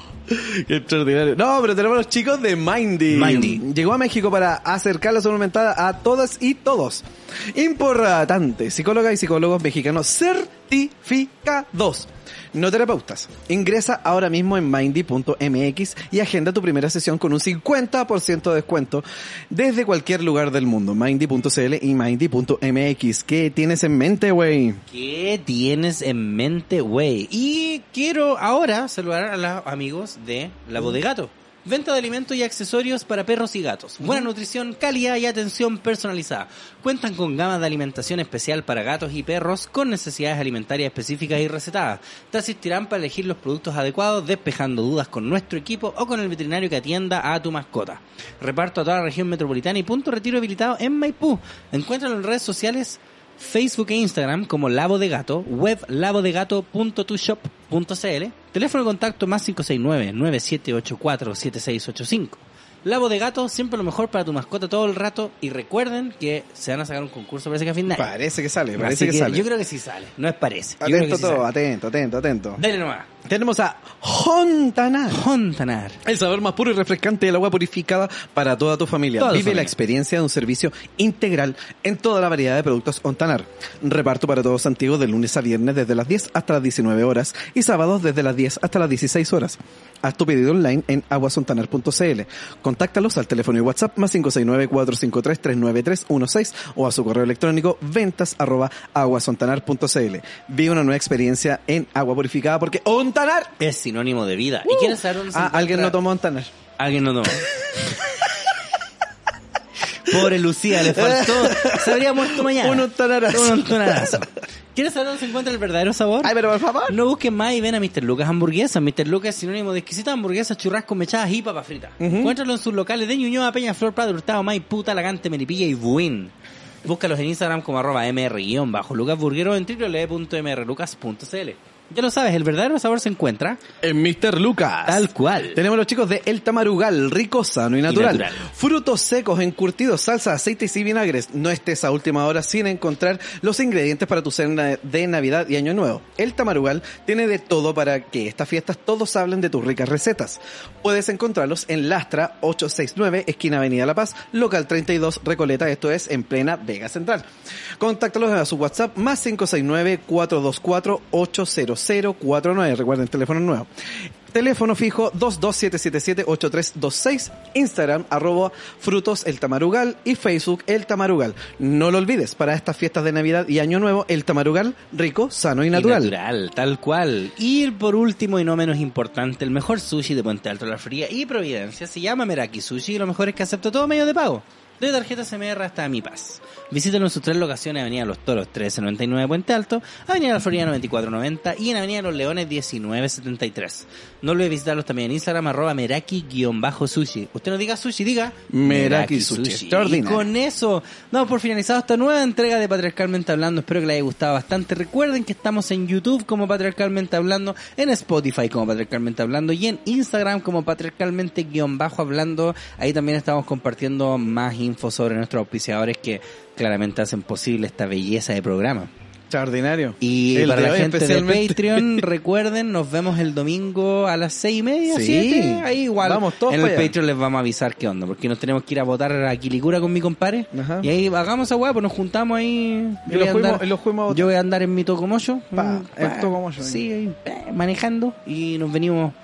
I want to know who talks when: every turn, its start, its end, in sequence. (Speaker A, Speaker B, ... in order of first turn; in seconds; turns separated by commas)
Speaker A: 0.3-24.8, Speaker B: 3.1-3.6, Speaker B: 24.9-68.1, Speaker A: 34.0-34.3, Speaker A: 68.0-69.5, Speaker B: 68.8-71.5, Speaker A: 70.8-72.6, Speaker B: 72.6-73.1, Speaker A: 73.2-75.2, Speaker B: 75.1-76.0, Speaker A: 76.0-103.5, Speaker B: 79.2-79.8, Speaker B: 103.6-106.0, Speaker A: 104.7-106.5, Speaker B: 106.8-107.5, Speaker A: 107.8-108.4, Speaker B: 110.0-126.3, Speaker A: 110.8-114.2, Speaker A: 116.2-117.0, Speaker A: 122.0-122.4, Speaker B: 126.8-133.6, Speaker A: 133.8-157.3, Speaker B: 134.9-135.6, Speaker B: 137.9-138.4, Speaker A: 157.8-163.7, Speaker A: 164.3-176.2, Speaker B: 175.7-218.9, Speaker A: 198.5-200.3, Speaker A: 219.3-222.1, Speaker B: 220.0-239.2, Speaker A: 224.9-226.9, Speaker A: 230.5-230.9, Speaker A: 233.1-234.3, Speaker A: 235.6-236.8